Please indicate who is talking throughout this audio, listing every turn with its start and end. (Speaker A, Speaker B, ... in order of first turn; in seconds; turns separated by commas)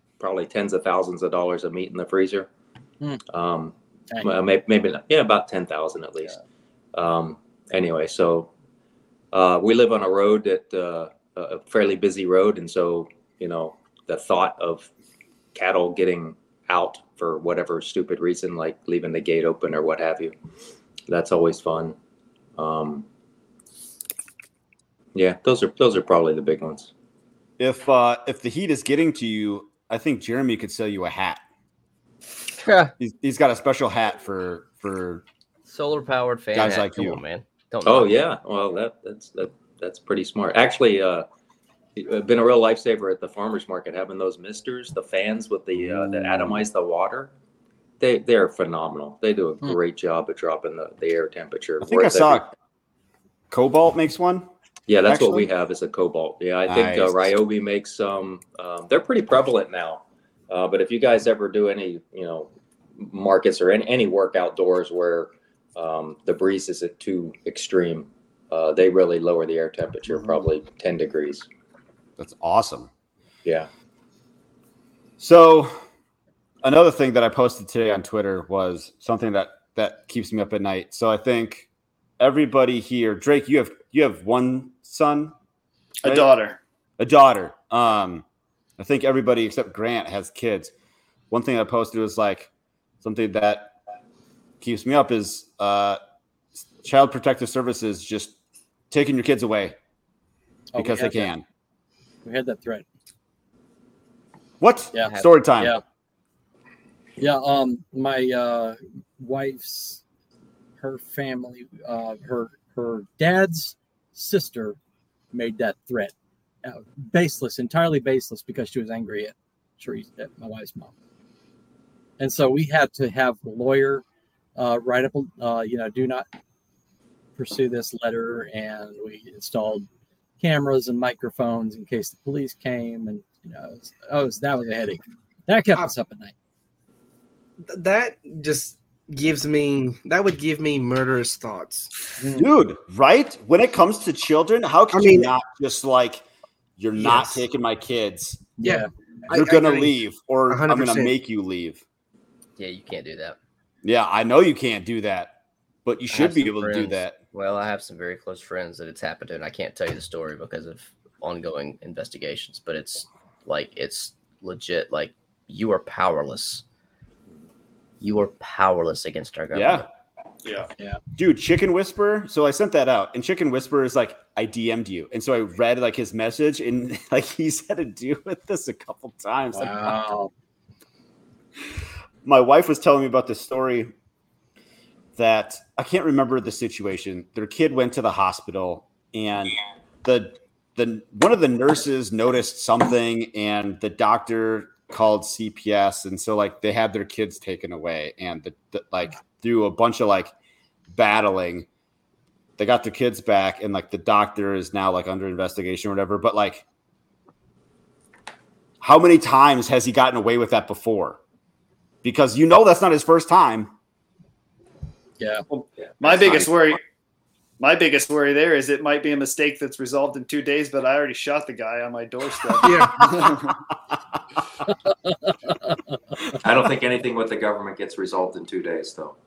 Speaker A: 0.2-2.5, Speaker A: 3.3-6.4, Speaker A: 6.9-8.5, Speaker A: 9.3-14.9, Speaker A: 15.6-20.3, Speaker A: 21.1-21.9, Speaker A: 22.6-23.1, Speaker A: 25.1-26.9, Speaker B: 27.6-31.4, Speaker C: 32.6-32.9, Speaker B: 33.0-35.2, Speaker C: 35.7-38.3, Speaker B: 36.5-37.2, Speaker A: 37.8-41.3, Speaker A: 42.0-47.3, Speaker B: 45.8-46.6, Speaker A: 48.0-52.5, Speaker B: 51.8-52.5, Speaker B: 53.5-54.5, Speaker A: 54.9-71.5, Speaker B: 55.0-55.5, Speaker B: 56.6-57.3, Speaker B: 72.2-72.9, Speaker B: 75.2-75.8, Speaker B: 76.6-81.7, Speaker B: 82.2-85.3, Speaker D: 86.0-86.6, Speaker B: 86.0-86.3, Speaker B: 87.0-88.2, Speaker B: 88.8-90.7, Speaker B: 91.3-92.5, Speaker B: 93.0-93.8, Speaker B: 94.6-96.0, Speaker B: 96.6-98.4, Speaker B: 98.9-99.8, Speaker E: 100.7-101.3, Speaker B: 100.8-101.4, Speaker E: 102.2-102.8, Speaker B: 104.6-105.8, Speaker E: 104.9-105.8, Speaker E: 107.2-110.0, Speaker E: 110.8-114.8, Speaker E: 115.3-116.1, Speaker E: 116.6-120.9, Speaker E: 122.2-124.0, Speaker E: 124.5-126.3, Speaker E: 127.4-129.8, Speaker E: 130.4-136.3, Speaker F: 137.7-141.9, Speaker E: 142.2-142.5, Speaker B: 142.3-146.2, Speaker F: 144.9-145.3, Speaker B: 146.8-148.5, Speaker F: 147.0-147.4, Speaker E: 148.6-148.9, Speaker F: 148.6-149.9, Speaker B: 149.3-151.8, Speaker F: 150.5-151.1, Speaker C: 152.6-153.4, Speaker B: 153.8-155.3, Speaker B: 155.9-157.2, Speaker C: 156.1-166.6, Speaker C: 168.0-169.8, Speaker B: 169.5-169.9, Speaker D: 170.4-170.7, Speaker B: 171.2-180.0, Speaker E: 179.5-180.3, Speaker B: 182.2-183.9, Speaker B: 185.2-200.3, Speaker B: 200.9-201.7, Speaker B: 202.6-206.6, Speaker B: 208.8-211.2, Speaker B: 212.0-213.7, Speaker E: 215.2-215.4, Speaker D: 215.5-216.8, Speaker D: 217.6-223.6, Speaker F: 222.6-223.1, Speaker B: 223.0-223.3, Speaker E: 224.8-225.8, Speaker A: 226.4-229.2